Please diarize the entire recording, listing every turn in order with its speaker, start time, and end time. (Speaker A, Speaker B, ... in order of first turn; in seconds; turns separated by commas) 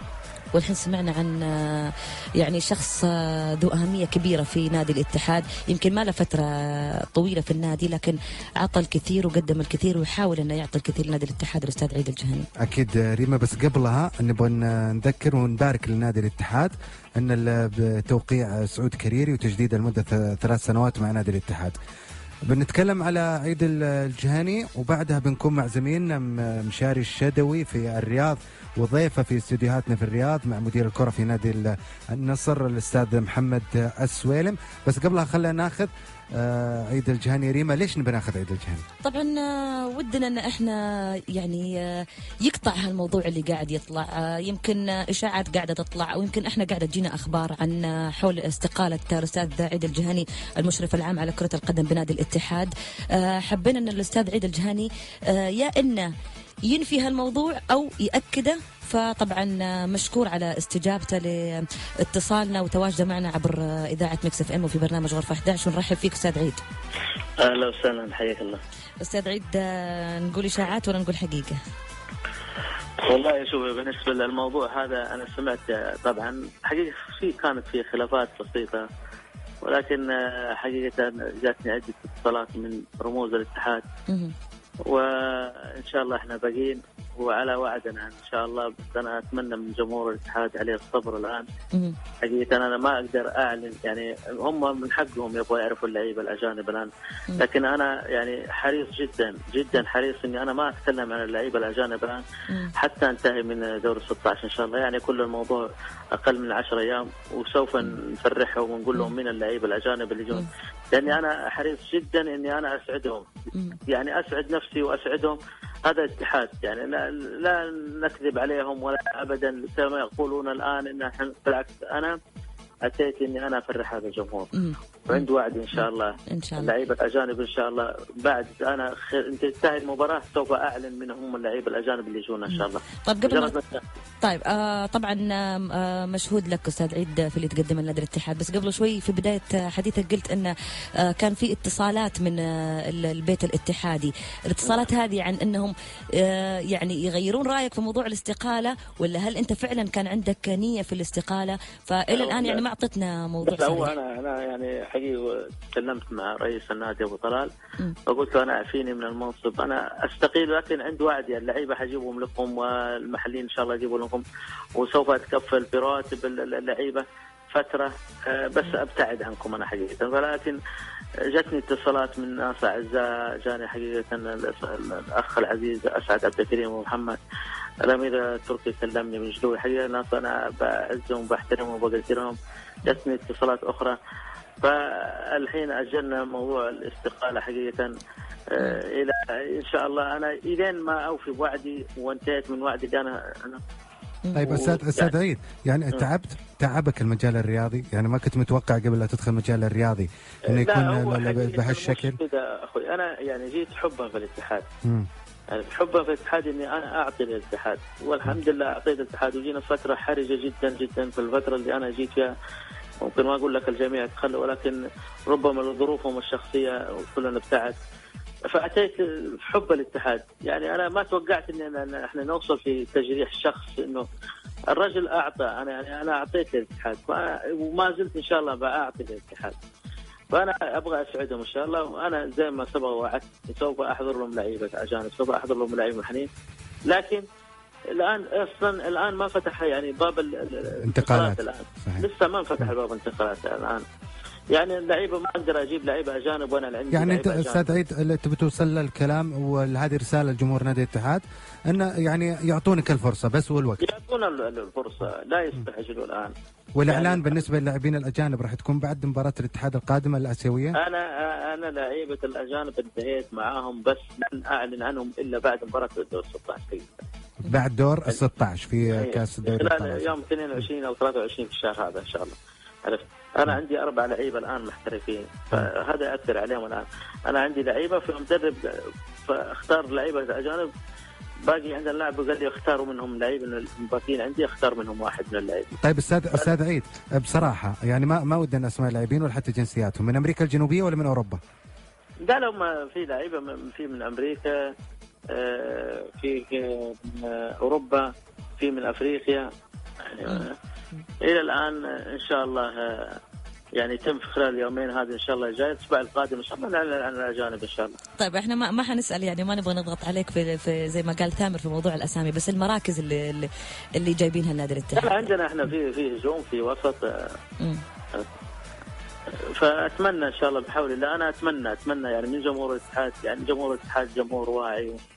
Speaker A: 0.5-12.5, Speaker B: 12.6-21.8, Speaker B: 22.5-38.8, Speaker A: 39.0-56.1, Speaker A: 56.6-66.6, Speaker C: 67.4-68.6, Speaker A: 69.0-71.6, Speaker C: 73.0-78.9, Speaker C: 79.6-83.8, Speaker A: 84.1-84.3, Speaker C: 84.9-91.5, Speaker C: 92.2-102.2, Speaker C: 102.8-113.3, Speaker C: 113.9-122.2, Speaker C: 122.9-124.5, Speaker A: 124.5-126.7, Speaker C: 125.1-133.8, Speaker A: 132.5-133.5, Speaker A: 134.2-153.9, Speaker C: 152.1-152.6, Speaker C: 153.4-157.5, Speaker C: 158.1-164.2, Speaker C: 164.8-170.6, Speaker C: 171.3-177.2, Speaker C: 177.8-184.0, Speaker C: 184.6-187.9, Speaker C: 188.5-193.6, Speaker A: 194.2-194.5, Speaker B: 194.4-202.2, Speaker C: 194.4-195.1, Speaker C: 200.5-204.7, Speaker C: 205.5-212.3, Speaker C: 213.0-217.8, Speaker C: 218.5-224.1, Speaker C: 224.7-229.6, Speaker C: 230.3-236.3, Speaker C: 236.9-237.2, Speaker C: 237.9-243.8, Speaker B: 240.8-242.1, Speaker C: 244.5-247.8, Speaker B: 246.9-253.8, Speaker C: 253.8-256.3, Speaker B: 256.8-260.8, Speaker C: 256.9-257.4, Speaker C: 260.8-267.0, Speaker B: 267.4-270.1, Speaker C: 268.9-280.7, Speaker C: 281.4-285.7, Speaker B: 285.8-291.4, Speaker C: 292.2-294.6, Speaker C: 295.3-298.1, Speaker C: 298.6-299.5, Speaker C: 300.1-300.6, Speaker C: 301.2-303.2, Speaker C: 303.8-308.0, Speaker A: 308.2-315.3, Speaker C: 314.9-317.4, Speaker C: 319.6-325.0